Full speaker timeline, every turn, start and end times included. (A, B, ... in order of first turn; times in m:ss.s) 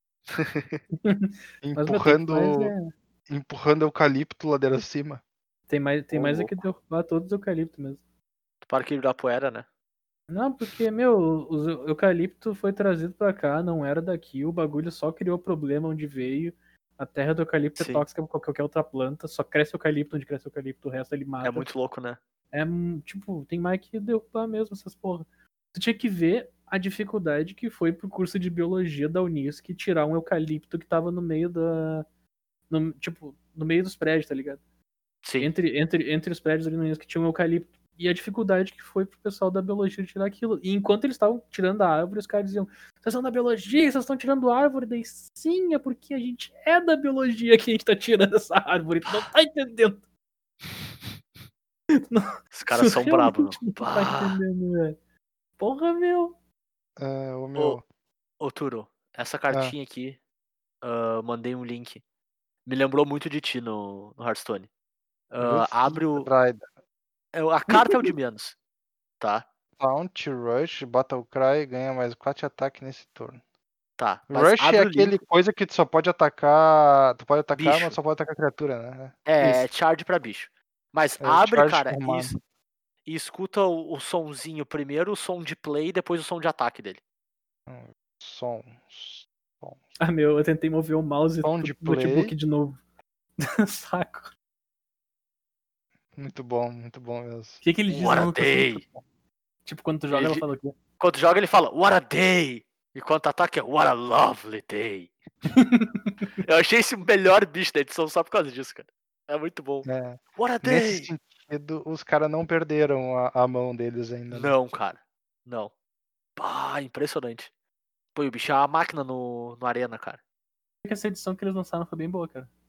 0:00.3-0:00.8 A
0:01.0-0:02.9 B
0:01.6-0:02.7 C
0:03.3-0:05.2 C
0:05.7-0:08.0 B
0:06.1-0:06.6 C
0:08.6-0:09.6 A
0:10.3-0:21.7 B
0:17.8-0:18.0 A
0:21.4-0:22.2 A
0:22.5-0:32.0 B
0:32.7-0:34.6 B
0:35.2-0:35.5 A
0:35.4-0:50.0 B
0:52.1-0:55.0 B
0:52.5-0:54.4 A
0:55.6-0:56.3 B
0:57.0-0:57.8 C
0:58.4-1:00.2 A
1:00.8-1:02.0 A
1:02.6-1:04.7 A
1:05.3-1:06.3 A
1:05.4-1:06.7 C
1:07.3-1:08.5 A
1:07.7-1:08.1 C
1:09.8-1:13.4 C
1:14.0-1:15.2 A
1:14.3-1:19.7 C
1:17.5-1:18.0 A
1:19.2-1:22.4 A
1:21.2-1:22.4 C
1:23.0-1:27.0 A
1:27.7-1:29.8 C
1:30.0-1:32.8 B
1:31.4-1:32.3 C
1:33.4-1:34.3 B
1:36.2-1:37.6 C
1:37.6-1:38.8 B
1:37.9-1:38.8 A
1:39.6-1:40.8 B
1:40.1-1:40.4 A
1:41.0-1:45.1 A
1:45.5-1:46.3 B
1:46.4-1:51.1 A
1:49.8-1:54.6 C
1:54.3-1:55.7 A
1:56.4-1:57.5 A
1:58.1-2:00.2 A
2:00.8-2:02.5 B